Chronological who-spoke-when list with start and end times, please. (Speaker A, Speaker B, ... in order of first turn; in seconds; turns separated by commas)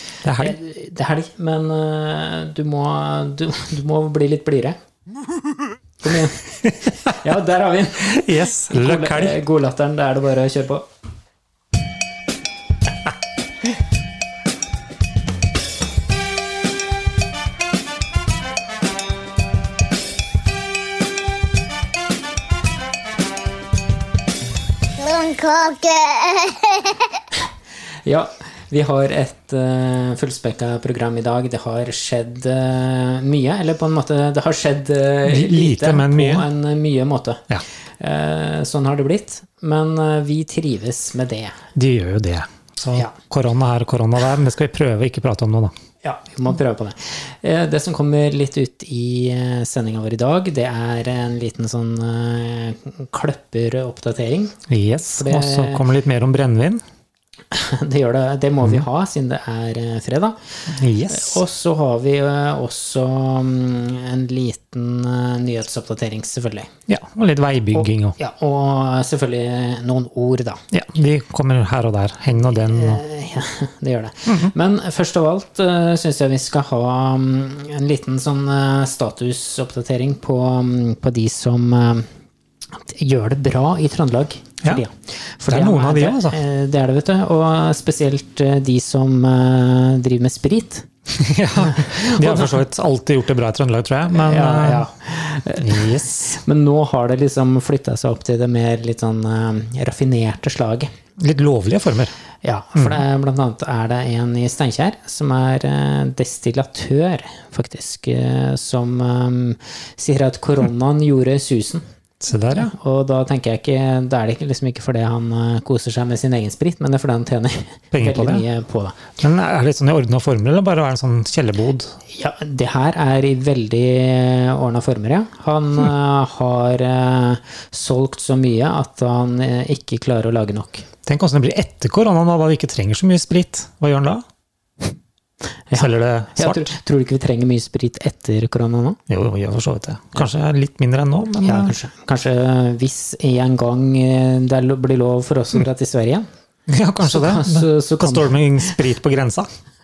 Speaker A: 0.2-0.6, Speaker B: 0.3-4.8, Speaker B: 6.0-10.8, Speaker A: 8.0-9.4, Speaker C: 25.0-27.1, Speaker B: 28.0-41.5, Speaker A: 35.2-36.5, Speaker A: 41.7-45.7, Speaker B: 46.0-54.6, Speaker A: 54.7-56.8, Speaker B: 55.2-55.8, Speaker B: 57.5-60.4, Speaker A: 60.7-61.4, Speaker B: 61.1-66.7, Speaker A: 66.9-68.2, Speaker B: 67.7-70.6, Speaker A: 70.7-73.0, Speaker B: 72.7-82.1, Speaker A: 74.3-74.5, Speaker B: 82.7-90.9, Speaker A: 85.5-86.4, Speaker A: 91.1-94.8, Speaker B: 91.7-92.6, Speaker B: 94.1-100.9, Speaker A: 95.6-96.4, Speaker A: 101.2-102.1, Speaker B: 102.4-111.8, Speaker A: 102.8-103.0, Speaker A: 112.2-112.7, Speaker B: 112.5-119.1, Speaker A: 117.9-118.4, Speaker A: 119.2-121.9, Speaker B: 122.1-130.9, Speaker A: 131.1-134.2, Speaker B: 135.7-139.0, Speaker A: 135.7-136.7, Speaker A: 139.1-141.7, Speaker B: 141.4-146.3, Speaker A: 146.7-149.5, Speaker B: 147.0-148.8